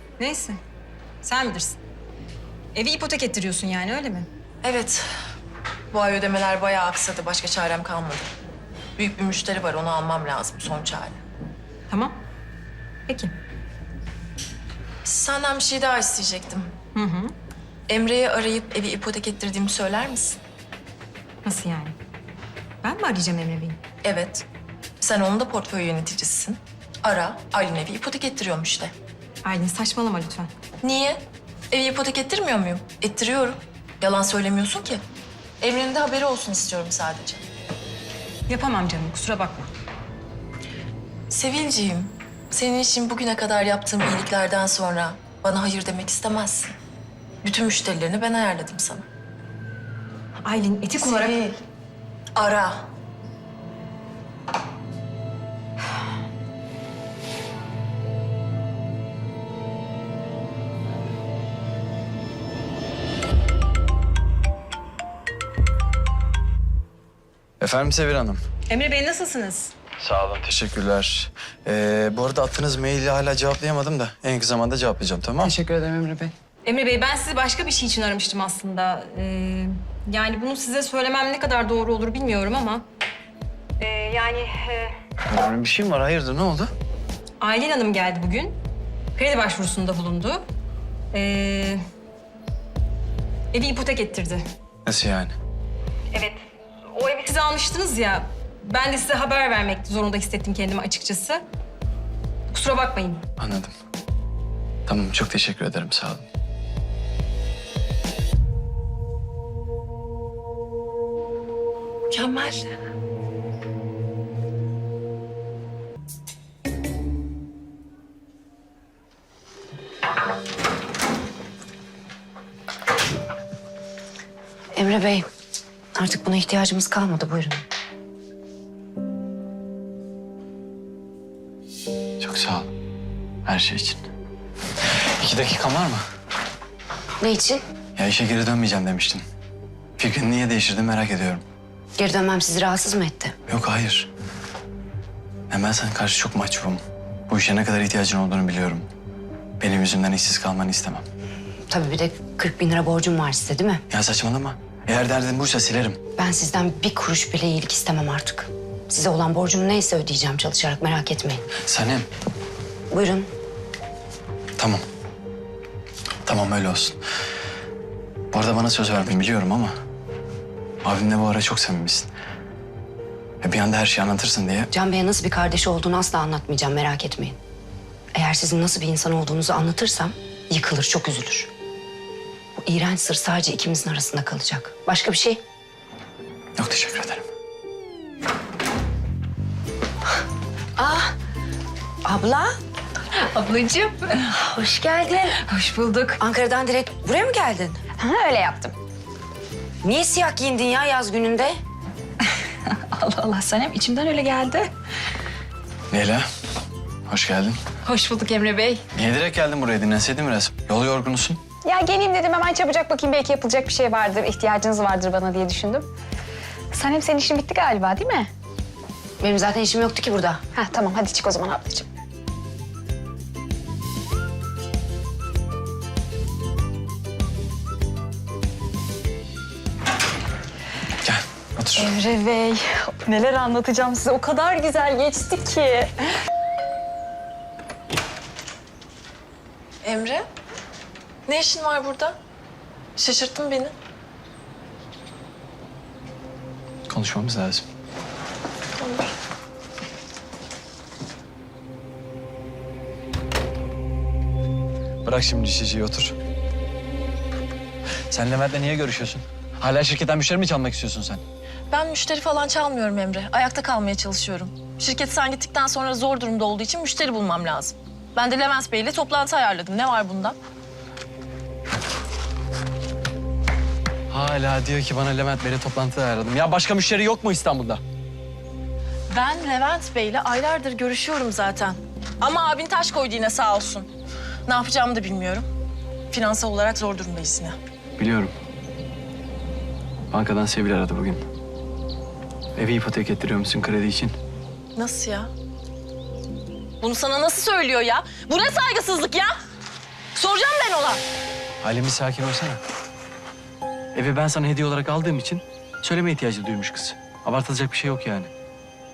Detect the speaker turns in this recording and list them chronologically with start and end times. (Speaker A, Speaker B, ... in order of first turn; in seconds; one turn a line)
Speaker A: 0.2-0.6
Speaker A: 1.2-1.8
Speaker A: 2.7-4.3
Speaker B: 4.6-5.0
Speaker B: 5.9-8.3
Speaker B: 9.0-11.2
Speaker A: 11.9-12.2
Speaker A: 13.1-13.3
Speaker B: 15.0-16.7
Speaker A: 16.9-17.3
Speaker B: 17.9-20.4
Speaker A: 21.4-21.9
Speaker A: 22.8-23.8
Speaker B: 24.0-24.4
Speaker B: 25.0-28.9
Speaker A: 29.4-30.5
Speaker B: 30.8-35.0
Speaker B: 35.6-37.4
Speaker A: 38.5-39.7
Speaker B: 41.3-46.8
Speaker B: 47.4-49.0
Speaker A: 50.4-51.5
Speaker B: 51.0-51.5
Speaker B: 52.4-52.9
Speaker C: 67.6-68.4
Speaker A: 68.7-69.7
Speaker C: 70.0-75.5
Speaker D: 75.6-76.3
Speaker A: 76.6-82.8
Speaker A: 83.8-84.9
Speaker C: 85.2-86.7
Speaker A: 87.4-88.6
Speaker A: 89.1-90.4
Speaker A: 91.1-91.8
Speaker A: 93.5-94.4
Speaker C: 94.8-95.3
Speaker A: 96.1-101.4
Speaker A: 102.5-103.2
Speaker C: 103.4-103.7
Speaker C: 104.9-106.2
Speaker B: 112.1-112.7
Speaker E: 124.8-125.2
Speaker E: 126.0-127.6
Speaker C: 132.2-132.7
Speaker C: 133.4-134.1
Speaker C: 134.8-136.0
Speaker E: 137.2-137.6
Speaker C: 137.9-139.2
Speaker C: 140.0-141.4
Speaker E: 142.0-143.3
Speaker C: 143.5-144.1
Speaker C: 145.5-148.9
Speaker C: 149.6-151.0
Speaker E: 151.7-153.8
Speaker C: 153.9-156.0
Speaker E: 156.2-161.4
Speaker C: 161.6-162.1
Speaker E: 162.9-163.3
Speaker C: 164.6-164.8
Speaker C: 166.2-167.0
Speaker C: 168.3-169.7
Speaker C: 170.8-172.1
Speaker C: 173.4-174.7
Speaker E: 174.7-177.4
Speaker E: 178.1-181.5
Speaker E: 182.6-185.4
Speaker C: 186.6-187.2
Speaker E: 190.8-191.1
Speaker E: 192.0-192.5
Speaker D: 193.1-194.6
Speaker E: 194.4-195.4
Speaker D: 195.3-196.2
Speaker E: 196.2-197.8
Speaker D: 197.9-198.7
Speaker E: 199.8-201.5
Speaker D: 202.6-204.7
Speaker C: 205.9-206.2
Speaker C: 207.1-207.6
Speaker D: 207.8-208.8
Speaker C: 208.9-211.4
Speaker D: 211.6-215.9
Speaker D: 216.7-218.3
Speaker E: 219.2-220.4
Speaker D: 220.5-221.9
Speaker C: 231.0-231.9
Speaker D: 231.8-236.0
Speaker B: 239.8-240.2
Speaker B: 241.3-242.2
Speaker B: 243.0-243.7
Speaker C: 246.9-247.6
Speaker B: 248.8-249.1
Speaker C: 255.0-256.1
Speaker C: 258.1-261.2
Speaker B: 261.7-270.4
Speaker C: 274.1-277.8
Speaker B: 279.1-283.9
Speaker B: 284.5-285.4
Speaker B: 286.1-287.6
Speaker C: 288.0-288.3
Speaker C: 290.1-291.2
Speaker C: 292.6-294.1
Speaker B: 294.8-295.3
Speaker B: 296.8-299.3
Speaker B: 300.1-301.0
Speaker C: 301.6-302.6
Speaker C: 303.9-308.3